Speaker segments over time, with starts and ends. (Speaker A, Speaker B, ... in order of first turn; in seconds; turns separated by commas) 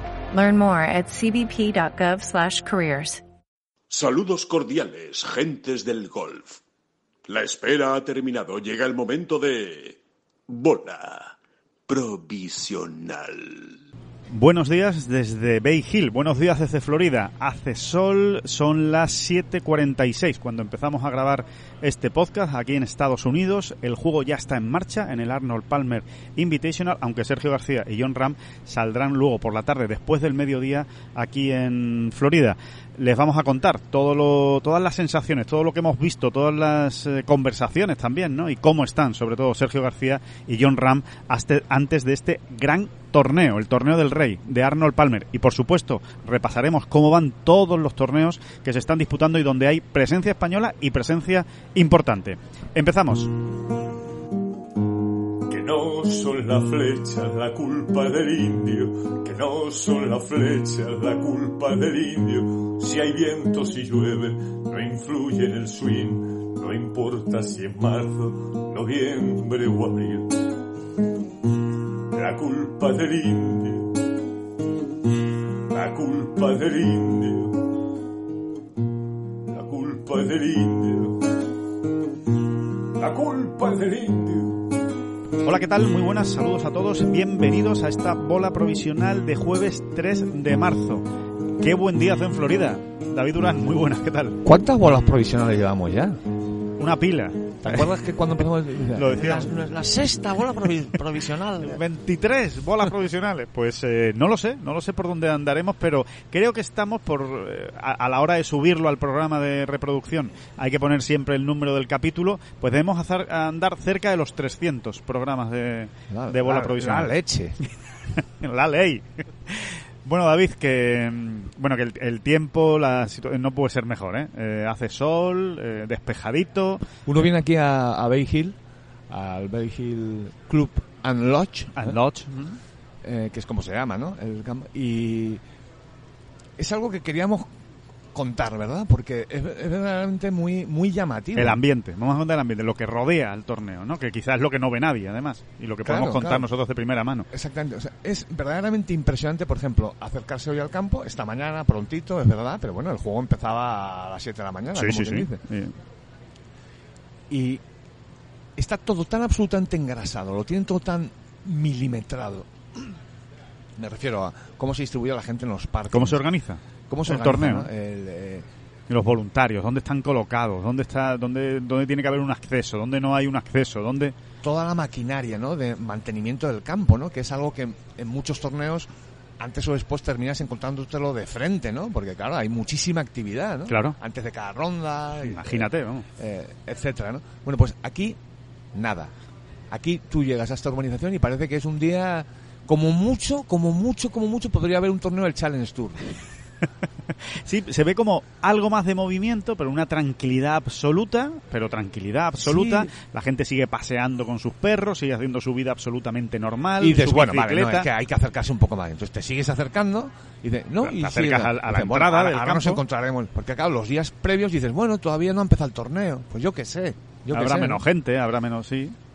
Speaker A: 0.3-3.2, Speaker B: 3.9-6.6, Speaker B: 7.3-10.0, Speaker B: 10.5-11.3, Speaker B: 11.9-13.8, Speaker C: 14.3-53.3, Speaker D: 55.5-70.4, Speaker D: 72.1-74.0, Speaker D: 75.7-77.6, Speaker D: 79.5-81.2, Speaker D: 83.0-84.7, Speaker C: 85.4-91.0, Speaker C: 91.6-94.4, Speaker E: 94.4-96.2, Speaker C: 96.8-97.9, Speaker E: 97.6-101.8, Speaker C: 99.0-99.5, Speaker C: 101.6-117.1, Speaker E: 116.1-117.6, Speaker C: 117.7-126.8, Speaker E: 127.1-128.6, Speaker E: 129.1-132.0, Speaker C: 131.7-132.6, Speaker E: 133.0-135.4, Speaker E: 136.6-137.5, Speaker E: 138.1-141.6, Speaker C: 141.3-147.3, Speaker E: 145.8-146.5, Speaker E: 147.3-155.4, Speaker C: 154.7-155.8, Speaker E: 157.3-157.6, Speaker E: 158.6-163.0, Speaker E: 163.8-166.2, Speaker C: 165.9-167.7, Speaker E: 166.9-168.5, Speaker C: 168.9-174.1, Speaker E: 174.4-178.9, Speaker E: 179.4-188.2, Speaker C: 183.7-184.0, Speaker C: 185.2-186.1, Speaker E: 188.7-189.1, Speaker E: 189.7-196.1, Speaker C: 197.3-207.9, Speaker E: 202.4-202.9, Speaker E: 206.8-217.8, Speaker C: 210.8-212.8, Speaker C: 217.3-218.9